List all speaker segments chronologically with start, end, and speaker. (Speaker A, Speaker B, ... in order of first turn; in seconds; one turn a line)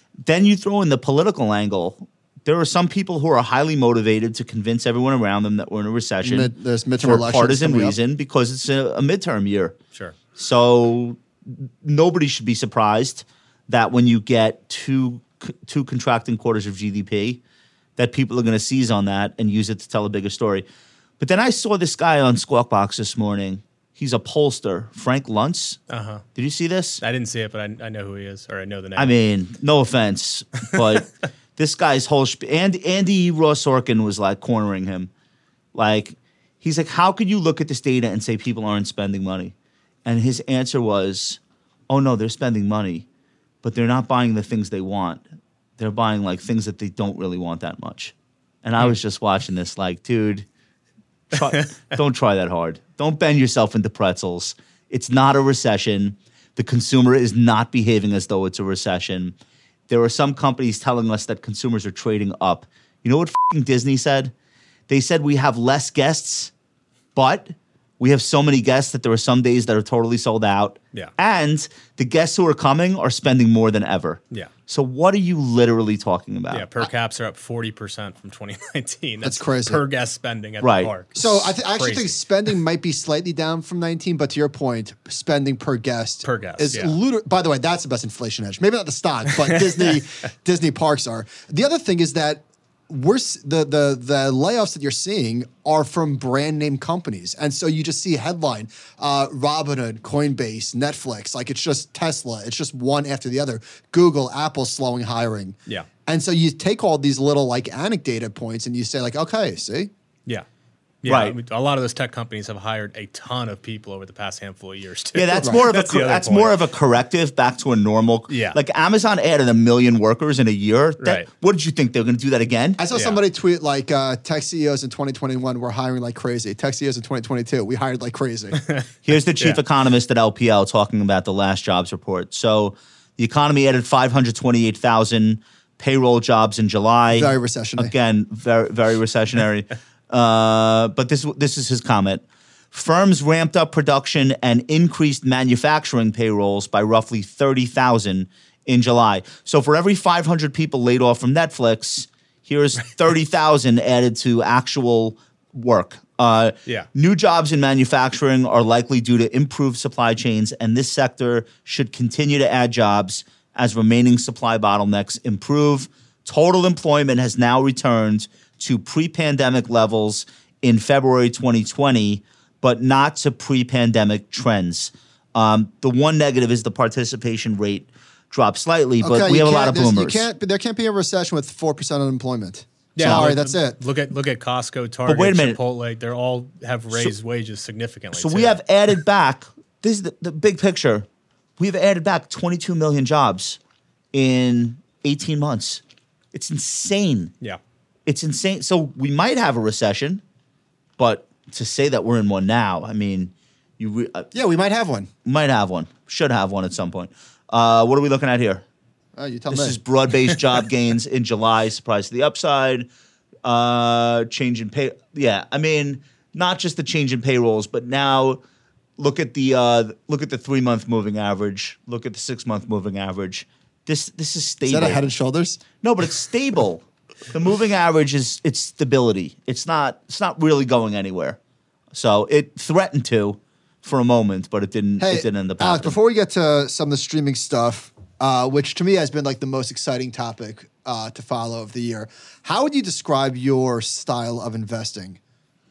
Speaker A: 0.2-9.8
Speaker B: 6.2-8.0
Speaker A: 10.4-17.4
Speaker A: 18.0-20.6
Speaker A: 21.2-25.8
Speaker C: 25.9-26.2
Speaker A: 26.4-27.0
Speaker C: 27.0-29.1
Speaker A: 29.0-35.1
Speaker A: 35.8-39.5
Speaker A: 40.0-43.1
Speaker A: 43.6-45.2
Speaker A: 45.8-50.5
Speaker A: 51.3-59.4
Speaker A: 59.9-64.3
Speaker A: 64.9-66.5
Speaker A: 67.2-76.7
Speaker C: 76.5-82.2
Speaker B: 79.2-79.8
Speaker A: 80.6-80.9
Speaker B: 81.2-109.9
Speaker C: 86.2-87.0
Speaker C: 89.5-89.8
Speaker C: 111.0-116.6
Speaker A: 111.0-111.4
Speaker A: 115.2-122.8
Speaker B: 115.4-115.7
Speaker C: 118.3-118.6
Speaker C: 121.0-121.3
Speaker B: 122.8-128.6
Speaker C: 122.9-123.2
Speaker A: 129.1-180.3
Speaker B: 137.1-137.9
Speaker B: 179.0-183.8
Speaker C: 182.9-188.6
Speaker A: 183.0-183.3
Speaker A: 185.1-185.6
Speaker A: 188.1-191.1
Speaker A: 191.6-193.6
Speaker A: 194.1-195.8
Speaker A: 196.3-197.3
Speaker A: 198.1-200.2
Speaker A: 201.0-204.3
Speaker B: 204.3-205.1
Speaker A: 205.2-208.6
Speaker B: 209.2-209.8
Speaker A: 209.5-212.9
Speaker A: 213.4-218.4
Speaker A: 219.0-225.1
Speaker B: 224.6-225.6
Speaker A: 225.8-231.4
Speaker A: 231.9-235.9
Speaker B: 235.0-245.2